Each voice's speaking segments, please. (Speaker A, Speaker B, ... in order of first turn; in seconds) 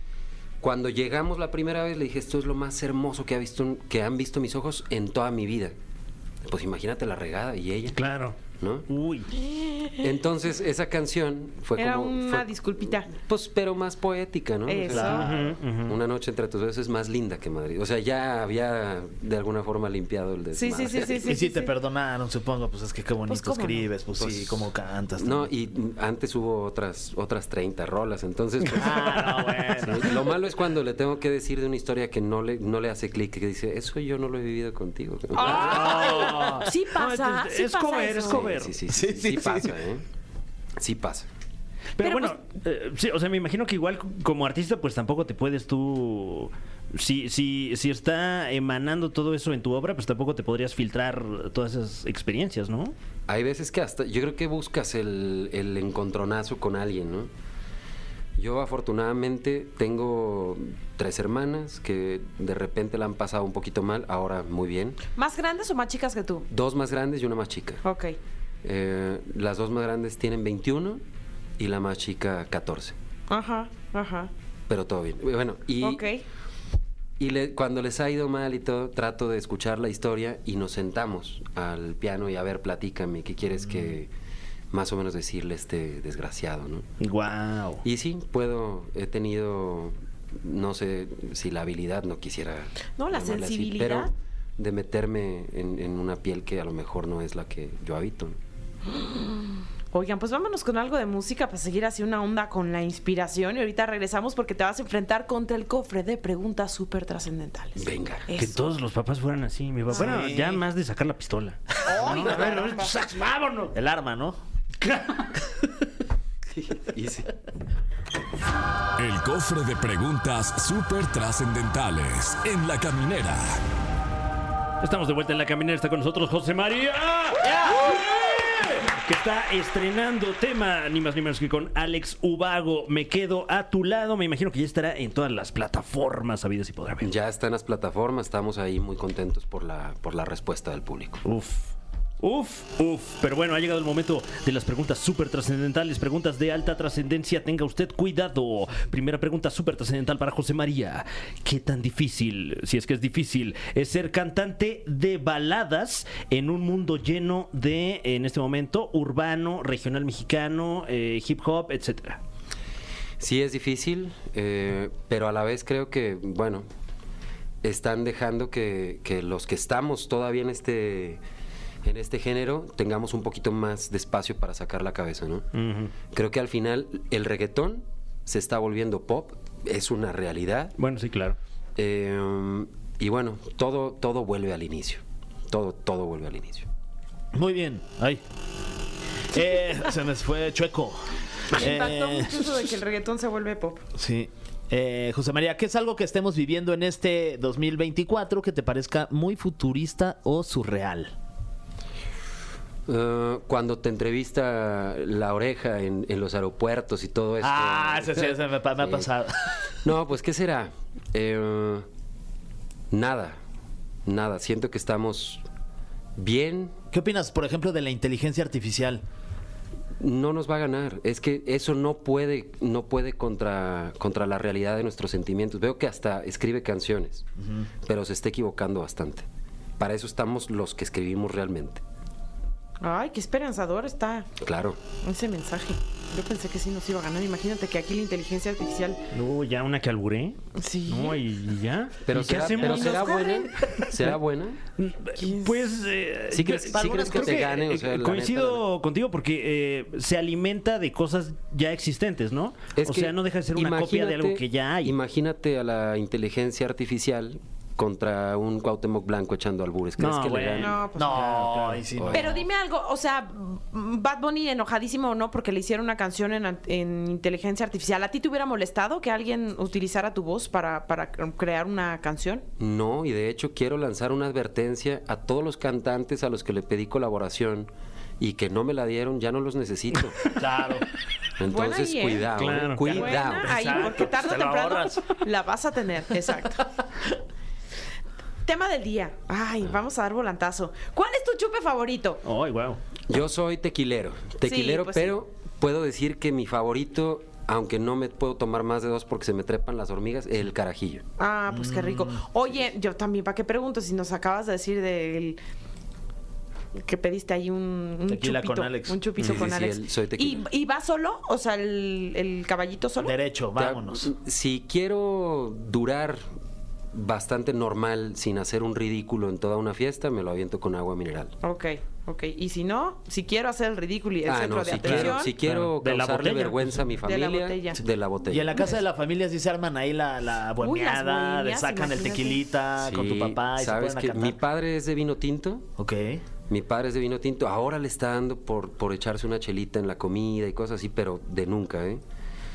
Speaker A: 0.6-5.7, 6.4-8.0, 8.6-8.8, 10.0-12.5, 13.1-21.3, 24.2-36.1, 38.3-40.0, 40.8-41.3, 53.3-57.3, 58.4-65.0, 66.5-67.8, 68.6-71.0, 71.6-72.9, 74.7-76.1, 77.2-84.1, 84.7-86.8, 87.8-98.4, 107.8-108.2, 116.5-117.3, 137.0-141.2, 163.2-166.7, 167.6-171.2, 171.8-175.5, 176.0-180.8, 181.8-186.7, 202.9-209.1, 209.7-211.8, 212.9-213.4, 214.1-215.4, 216.2-216.7, 220.0-227.2, 227.8-229.3, 229.8-231.8, 234.4-234.8, 242.1-244.6, 246.3-248.6, 252.8-260.8, 261.9-262.3, 272.6-280.4, 281.4-283.9, 293.1-301.0, 309.2-310.4, 313.6-316.2, 316.9-321.4, 324.2-328.6, 332.8-335.7, 336.5-342.0
Speaker B: 7.9-8.4, 8.9-9.3, 15.1-16.0, 35.4-38.8, 42.0-52.9, 87.0-87.8, 108.3-113.7, 114.8-115.4, 124.8-137.1, 141.2-162.2, 175.5-175.9, 180.8-181.4, 239.1-244.2, 244.8-254.9, 260.0-261.8, 282.3-284.1, 292.2-292.8, 324.7-326.9
Speaker C: 9.3-10.0, 11.8-13.1, 14.7-15.3, 20.5-21.7, 23.3-23.9, 35.3-38.4, 42.0-42.4, 65.1-66.4, 67.8-68.2, 73.3-74.3, 75.8-76.2, 93.0-94.1, 98.8-108.6, 111.8-112.9, 191.5-193.8, 232.8-234.3, 235.0-239.0, 240.5-241.2, 242.5-243.5, 245.2-245.6, 260.6-261.2, 262.1-272.4, 281.5-286.6, 288.4-292.2, 294.4-295.1, 301.2-305.4, 306.7-313.1, 321.4-325.3, 327.0-327.8, 330.6-332.4
Speaker D: 14.9-15.4, 21.2-25.5, 28.7-30.3, 35.7-36.7, 38.9-39.8, 109.9-110.6, 111.9-112.6, 113.7-114.4, 187.3-188.2, 189.3-192.4, 193.9-201.1, 207.4-209.9, 216.9-219.0, 227.4-227.7, 246.7-247.6, 260.9-262.4, 280.2-280.9, 282.8-285.1, 301.5-302.2, 308.1-309.0, 313.0-314.1, 328.3-334.4, 335.8-336.2
Speaker E: 119.0-123.6